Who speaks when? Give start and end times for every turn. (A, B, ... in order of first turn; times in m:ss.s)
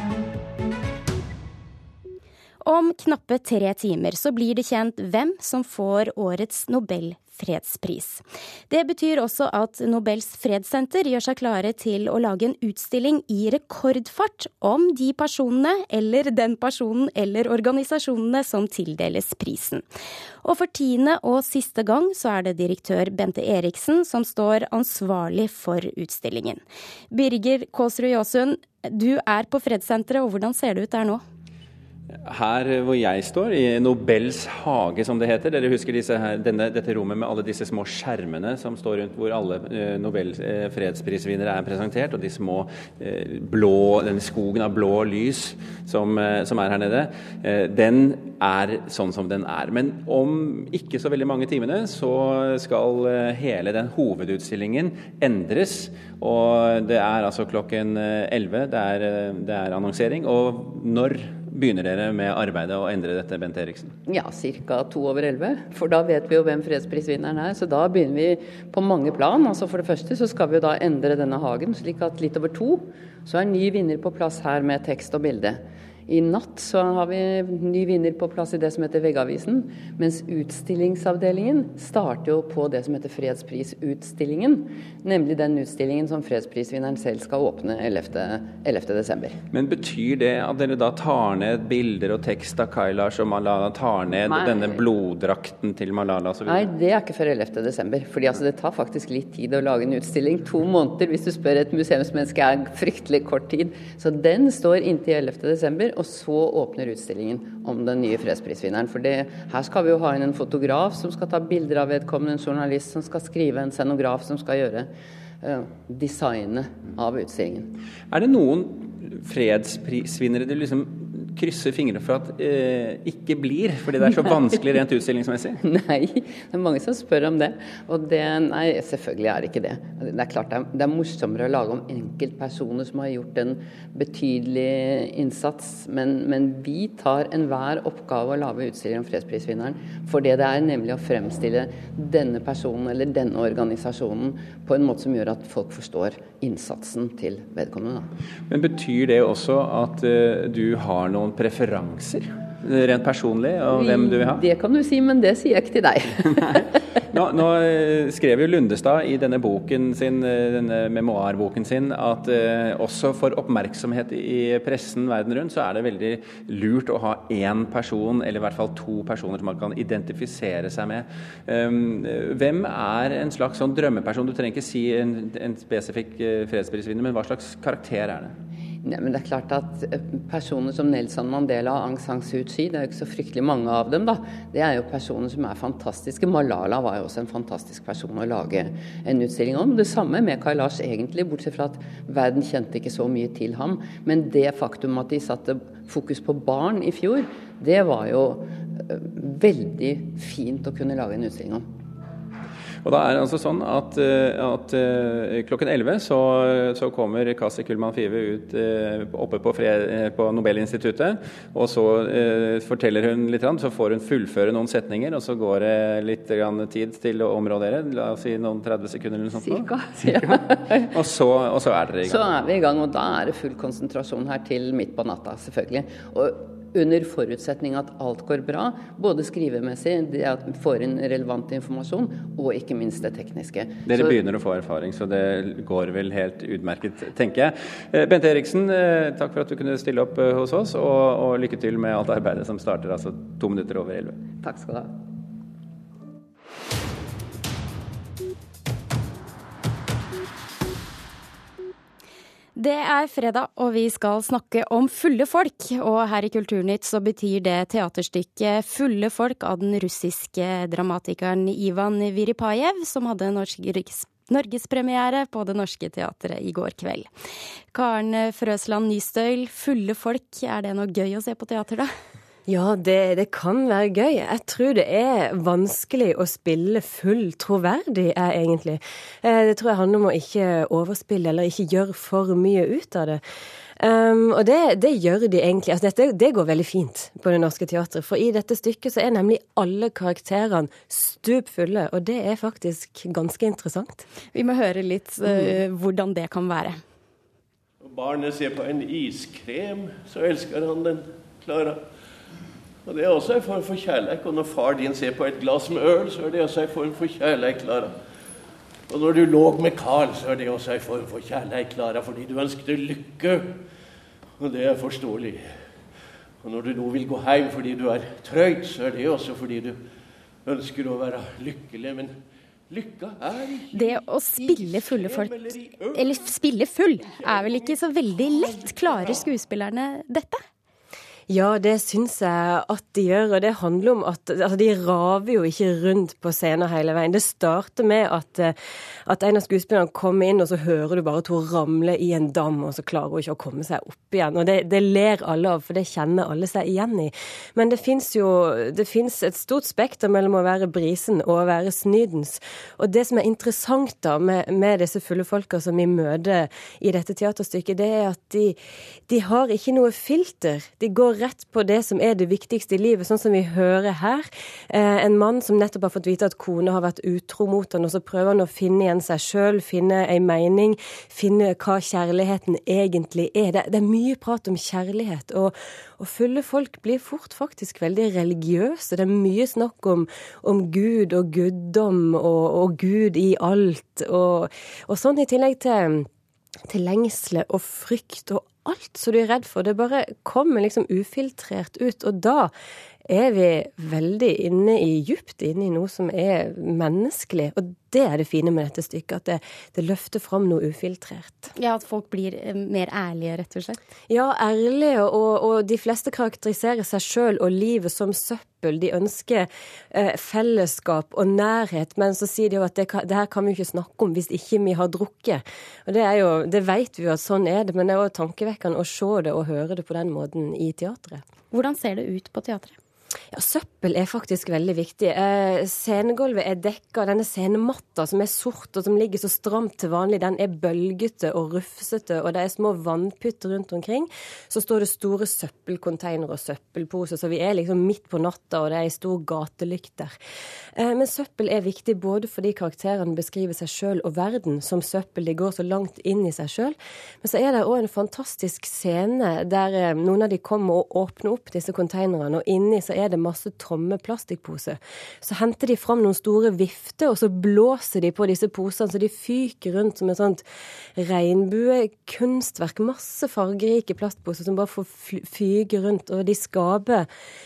0:02.6-0:19.8 A
0:20.4-0:31.2 A
0:32.2-1:03.9 B
1:04.1-1:29.4 C
1:29.5-1:36.7 B
1:34.2-1:34.8 C
1:36.5-1:57.7 C
1:58.1-2:05.6 B
2:04.0-2:04.6 C
2:05.6-2:28.1 C
2:28.5-2:34.4 B
2:33.7-2:36.8 C
2:37.1-2:58.4 B
2:58.8-3:21.7 C
3:22.8-3:42.2 B
3:39.4-3:40.9 C
3:42.0-3:54.2 C
3:53.9-4:04.2 B
4:04.4-4:04.9 C
4:12.6-4:27.1 A
4:27.7-4:31.9 A
4:32.5-4:43.2 D
4:43.8-4:54.0 D
4:54.3-4:56.8 A
4:57.8-5:01.8 E
5:02.9-5:08.0 E
5:08.9-5:13.6 E
5:14.4-5:15.6 E
5:16.4-5:19.8 E
5:20.5-5:22.2 E
5:22.7-5:26.2 E
5:23.7-5:30.4 A
5:27.0-5:27.8 E
5:28.3-5:29.2 E
5:31.3-5:38.6 D
5:39.1-6:26.1 D
6:26.7-6:32.5 D
6:33.1-6:41.5 D
6:41.6-6:43.8 A
6:44.1-7:01.2 D
7:01.5-7:02.8 A
7:03.3-7:20.2 D
7:20.8-7:40.4 D
7:41.0-7:47.1 D